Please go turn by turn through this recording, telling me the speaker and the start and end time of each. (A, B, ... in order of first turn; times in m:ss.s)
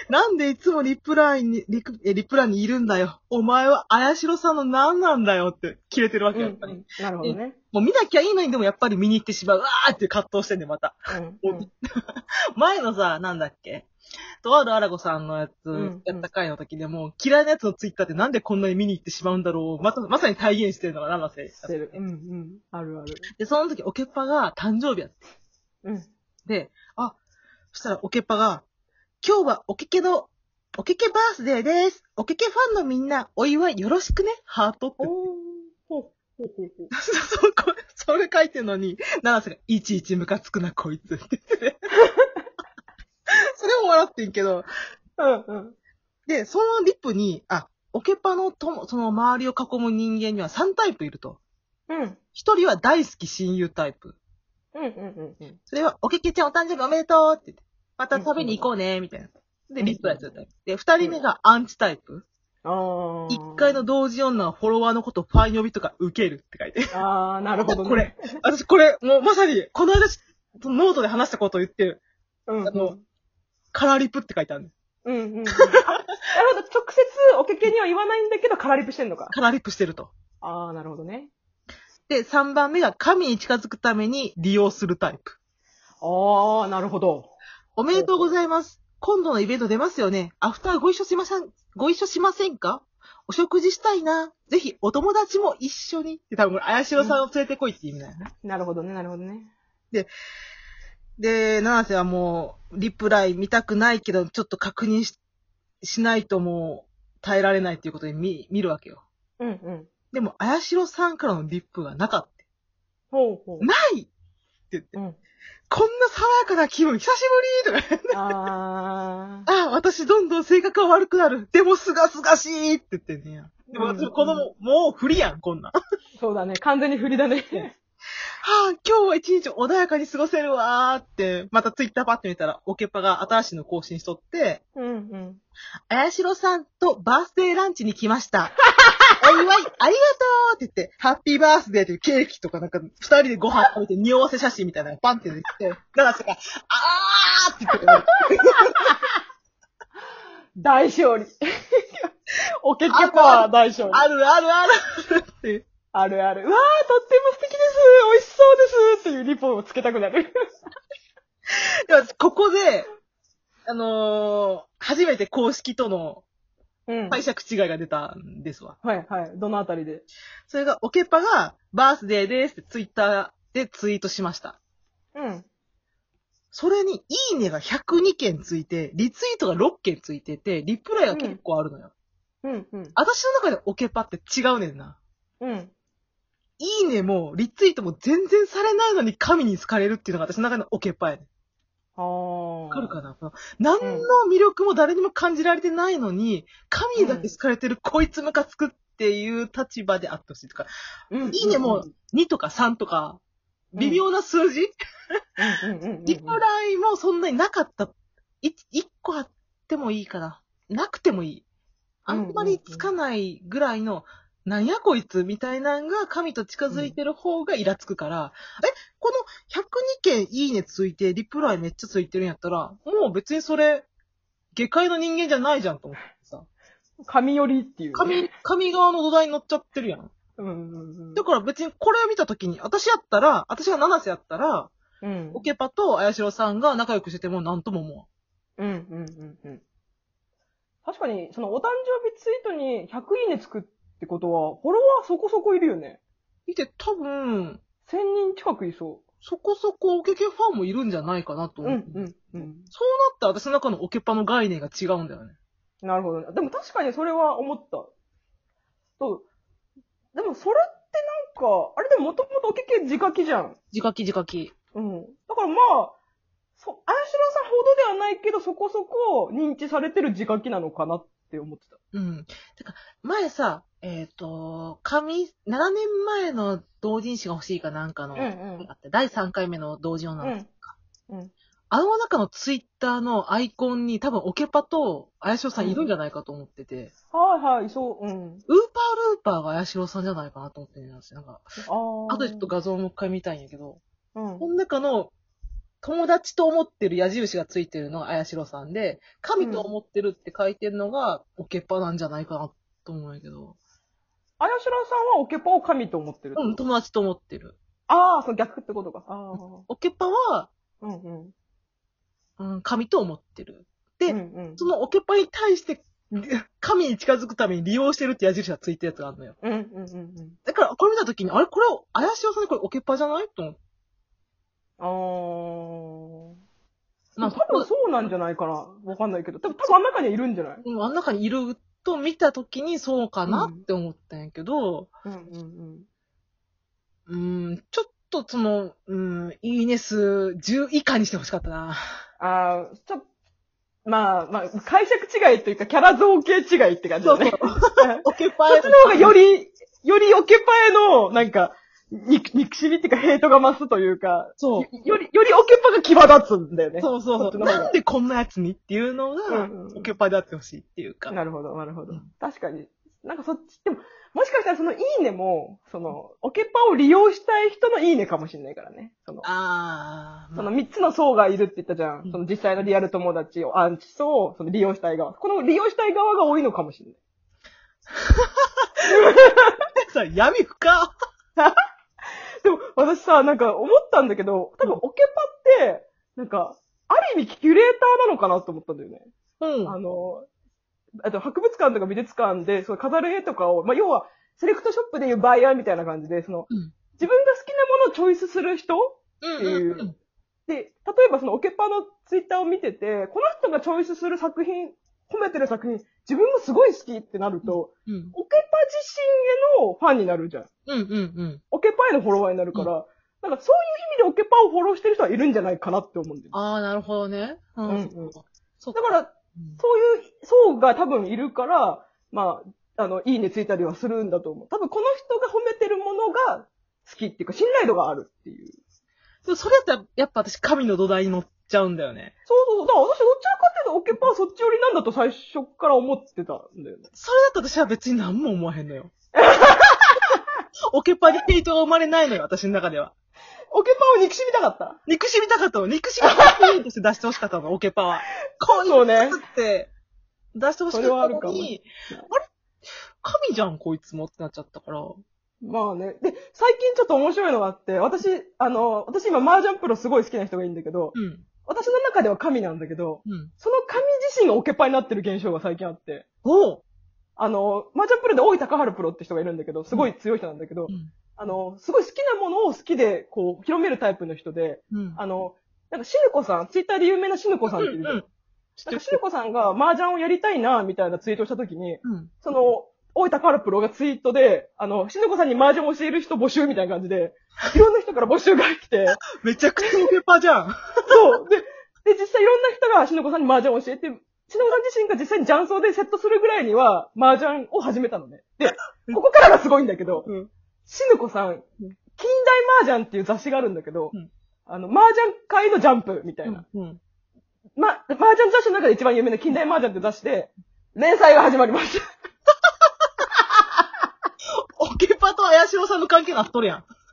0:00.1-0:13.9 A
0:06.3-0:07.6 B
0:11.1-0:11.7 B
0:14.4-0:22.0 A
0:15.7-0:16.3 B
0:21.6-0:23.3 B
0:23.4-0:25.2 A
0:26.4-0:27.2 A
0:27.7-0:28.6 A
0:29.2-0:35.1 A
0:35.0-0:36.9 B
0:36.9-0:41.9 A
0:42.0-0:42.4 B
0:43.6-0:44.6 A
0:45.2-0:45.7 B
0:46.3-0:51.4 A
0:51.9-0:52.2 B
0:52.3-0:54.2 A
0:54.7-0:55.6 B
0:55.7-1:02.2 A
0:58.1-0:58.6 B
0:59.8-1:00.2 B
1:02.6-1:03.8 B
1:03.3-1:06.9 A
1:06.9-1:08.4 B
1:07.6-1:12.0 A
1:12.5-1:13.0 B
1:12.6-1:12.9 A
1:13.7-1:14.7 A
1:15.0-1:15.8 B
1:15.8-1:16.1 A
1:16.3-1:19.3 B
1:19.3-1:20.1 A
1:20.4-1:21.3 B
1:22.1-1:25.4 A
1:26.0-1:27.3 B
1:27.8-1:38.3 A
1:27.9-1:28.2 B
1:38.4-1:39.5 B
1:41.2-1:45.2 A
1:45.8-1:49.0 A
1:49.4-1:49.9 B
1:50.1-1:52.4 A
1:53.1-1:53.7 B
1:53.6-1:54.1 A
1:54.7-1:55.0 A
1:55.7-1:58.2 A
1:58.1-1:59.5 B
1:59.5-2:05.7 A
2:03.7-2:04.5 B
2:06.2-2:07.7 B
2:08.4-2:14.6 A
2:14.8-2:15.4 B
2:15.9-2:18.6 A
2:18.7-2:19.1 B
2:19.2-2:28.9 A
2:27.8-2:29.0 B
2:30.6-2:34.0 B
2:32.9-2:35.6 A
2:35.9-2:40.3 B
2:41.5-2:42.9 A
2:43.6-2:46.2 A
2:46.9-2:47.2 B
2:47.1-2:48.8 A
2:48.8-2:50.0 B
2:50.5-2:54.6 A
2:55.1-2:55.5 B
2:56.5-3:01.9 A
3:01.1-3:01.4 B
3:02.4-3:03.0 B
3:03.0-3:05.0 A
3:05.4-3:05.7 B
3:06.6-3:11.2 A
3:12.0-3:12.9 B
3:12.7-3:20.7 A
3:13.8-3:14.1 B
3:17.0-3:17.3 B
3:21.1-3:21.9 B
3:21.3-3:23.2 A
3:23.7-3:24.7 A
3:25.4-3:26.4 B
3:26.0-3:31.4 A
3:32.0-3:43.8 A
3:32.1-3:32.9 B
3:36.7-3:37.0 B
3:44.5-3:46.4 A
3:47.0-3:48.3 B
3:47.9-3:50.1 A
3:50.4-3:51.2 B
3:51.1-3:54.7 A
3:55.0-3:55.4 B
3:55.3-3:58.0 A
3:58.6-3:59.6 B
4:00.8-4:06.0 B
4:06.5-4:07.6 A
4:07.8-4:09.0 B
4:09.2-4:15.4 A
4:11.6-4:12.7 B
4:15.8-4:17.9 B
4:19.0-4:19.2 B
4:20.1-4:23.6 B
4:23.7-4:24.5 A
4:24.7-4:26.0 B
4:26.6-4:31.8 B
4:31.9-4:40.7 A
4:38.1-4:38.7 B
4:40.2-4:40.5 B
4:41.7-4:46.9 A
4:45.6-4:45.8 B
4:47.1-4:48.4 B
4:48.5-4:51.5 A
4:51.6-4:52.5 B
4:52.1-4:53.8 A
4:54.1-4:54.4 B
4:54.4-4:55.1 A
4:55.8-5:03.6 A
4:59.4-4:59.7 B
5:04.4-5:06.6 B
5:06.4-5:07.6 A
5:07.9-5:09.6 B
5:09.7-5:10.5 A
5:10.8-5:11.3 B
5:12.4-5:19.3 A
5:14.1-5:14.6 B
5:19.4-5:20.4 B
5:20.4-5:23.6 A
5:24.8-5:26.4 B
5:27.2-5:27.7 A
5:27.2-5:30.6 B
5:30.6-5:34.9 A
5:33.3-5:33.6 B
5:35.0-5:35.9 B
5:37.1-5:41.8 A
5:42.2-5:43.0 B
5:43.8-5:57.7 B
5:47.0-5:49.1 A
5:54.4-5:54.7 A
5:56.8-6:01.1 A
5:59.3-5:59.9 B
6:01.1-6:09.3 B
6:09.2-6:10.5 A
6:10.4-6:17.0 B
6:18.1-6:18.5 A
6:18.8-6:19.6 B
6:19.8-6:20.9 A
6:22.4-6:29.1 B
6:29.4-6:29.8 A
6:29.6-6:30.3 B
6:31.0-6:39.9 B
6:39.2-6:39.9 A
6:40.5-6:50.5 B
6:47.4-6:48.1 A
6:50.6-6:51.4 A
6:51.5-6:56.3 B
6:56.3-6:59.6 A
6:57.6-6:58.2 B
6:58.7-7:08.6 B
7:09.2-7:12.1 A
7:12.3-7:16.9 B
7:16.9-7:18.9 A
7:19.2-7:20.2 B
7:20.7-7:22.9 A
7:23.5-7:24.8 B
7:24.9-7:29.7 A
7:26.0-7:26.5 B
7:28.4-7:29.2 B
7:30.3-7:32.2 A
7:30.7-7:32.1 B
7:33.0-7:35.0 A
7:35.4-7:46.0 B
7:40.9-7:41.2 A
7:43.0-7:43.3 A
7:46.2-7:46.6 A
7:47.2-7:58.0 B
7:54.7-7:55.0 A
7:57.5-7:58.0 A
7:58.6-7:59.0 A
7:58.7-8:09.0 B
8:01.8-8:02.1 A
8:09.0-8:11.0 A
8:10.9-8:20.1 B
8:18.4-8:19.0 A
8:20.7-8:21.4 B
8:22.0-8:23.9 B
8:24.5-8:26.4 B
8:26.2-8:26.8 A
8:27.6-8:31.8 B
8:34.6-8:36.6 A